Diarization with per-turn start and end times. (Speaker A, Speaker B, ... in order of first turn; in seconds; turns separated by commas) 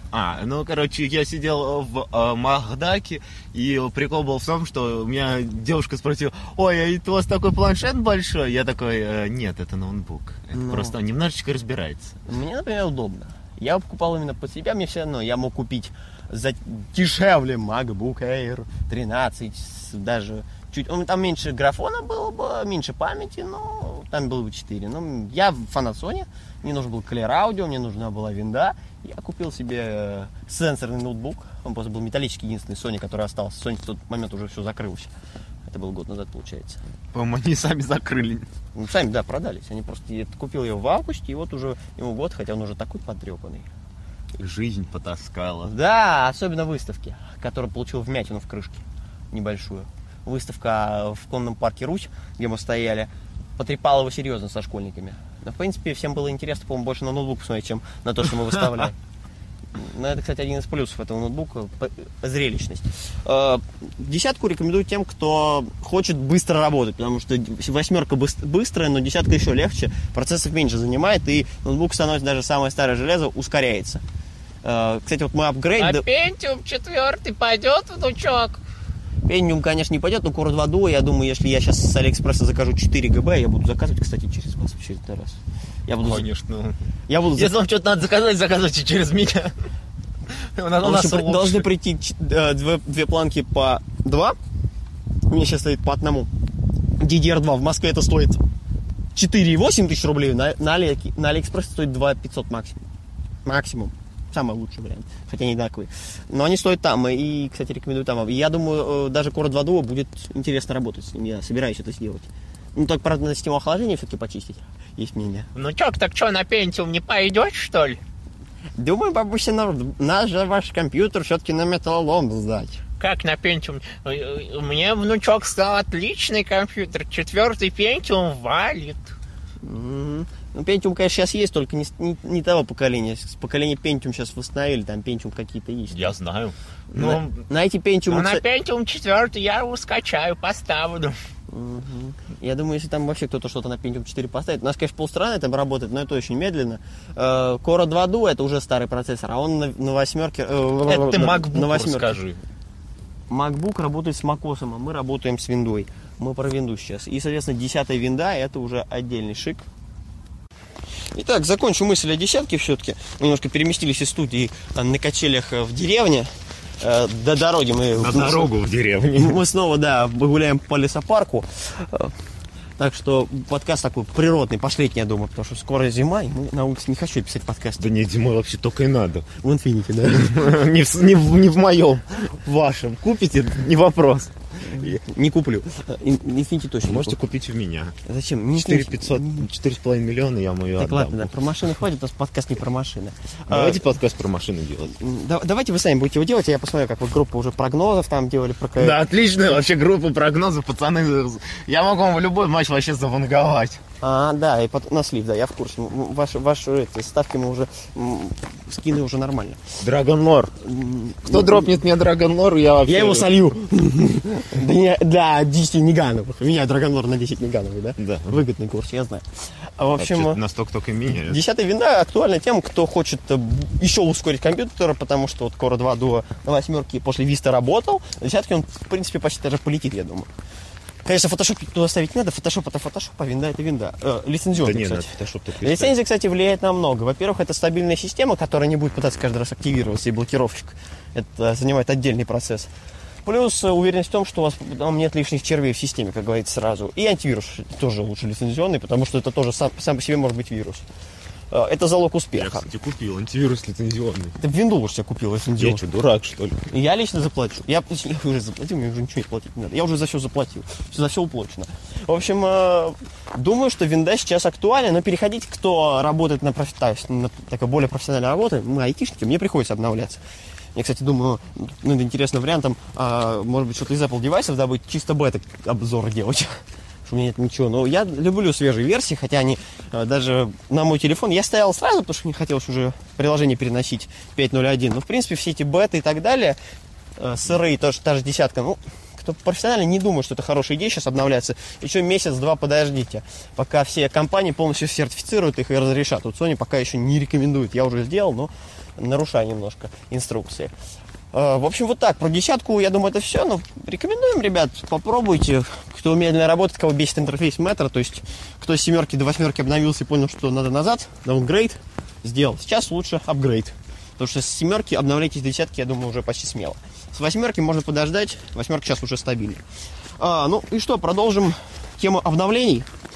Speaker A: 0.1-12.2, Speaker B: 10.5-10.9, Speaker B: 12.3-35.1, Speaker B: 35.7-36.8, Speaker A: 37.1-38.5, Speaker B: 38.7-43.7, Speaker A: 44.4-45.7, Speaker B: 45.6-58.9, Speaker B: 59.7-74.0, Speaker B: 74.6-76.0, Speaker C: 75.8-78.6, Speaker B: 79.2-86.2, Speaker A: 86.0-86.8, Speaker B: 87.1-87.6, Speaker A: 87.3-89.5, Speaker A: 90.3-91.7, Speaker B: 90.8-94.3, Speaker B: 95.3-96.3, Speaker B: 97.0-98.4, Speaker B: 99.1-102.8, Speaker B: 103.4-115.5, Speaker C: 115.5-118.0, Speaker B: 118.8-122.8, Speaker C: 123.0-129.1, Speaker B: 129.6-136.1, Speaker A: 135.9-137.4, Speaker B: 136.9-138.4, Speaker C: 138.1-141.2, Speaker B: 141.5-152.2, Speaker A: 150.7-152.4, Speaker B: 153.3-159.6, Speaker B: 161.1-168.5, Speaker A: 168.0-169.4, Speaker B: 169.2-172.1, Speaker B: 172.8-177.8, Speaker A: 177.8-179.3, Speaker B: 179.4-180.5, Speaker A: 180.0-185.0, Speaker B: 184.6-187.2, Speaker A: 186.8-187.9, Speaker B: 188.1-189.5, Speaker A: 188.5-191.3, Speaker B: 190.8-193.8, Speaker A: 193.5-194.9, Speaker B: 194.9-199.0, Speaker A: 198.8-203.8, Speaker B: 204.0-209.7, Speaker A: 209.8-210.5, Speaker B: 210.6-211.7, Speaker A: 211.3-213.3, Speaker B: 212.8-220.4, Speaker A: 218.0-218.4, Speaker A: 220.0-221.4, Speaker B: 221.2-230.3, Speaker B: 231.0-242.7, Speaker A: 234.6-235.9, Speaker B: 243.2-250.8, Speaker B: 251.5-252.7, Speaker A: 252.3-254.3, Speaker B: 254.4-255.8, Speaker A: 255.6-256.6, Speaker B: 256.7-270.2, Speaker B: 270.7-286.6, Speaker B: 287.2-300.7, Speaker B: 301.3-319.6, Speaker B: 320.2-322.9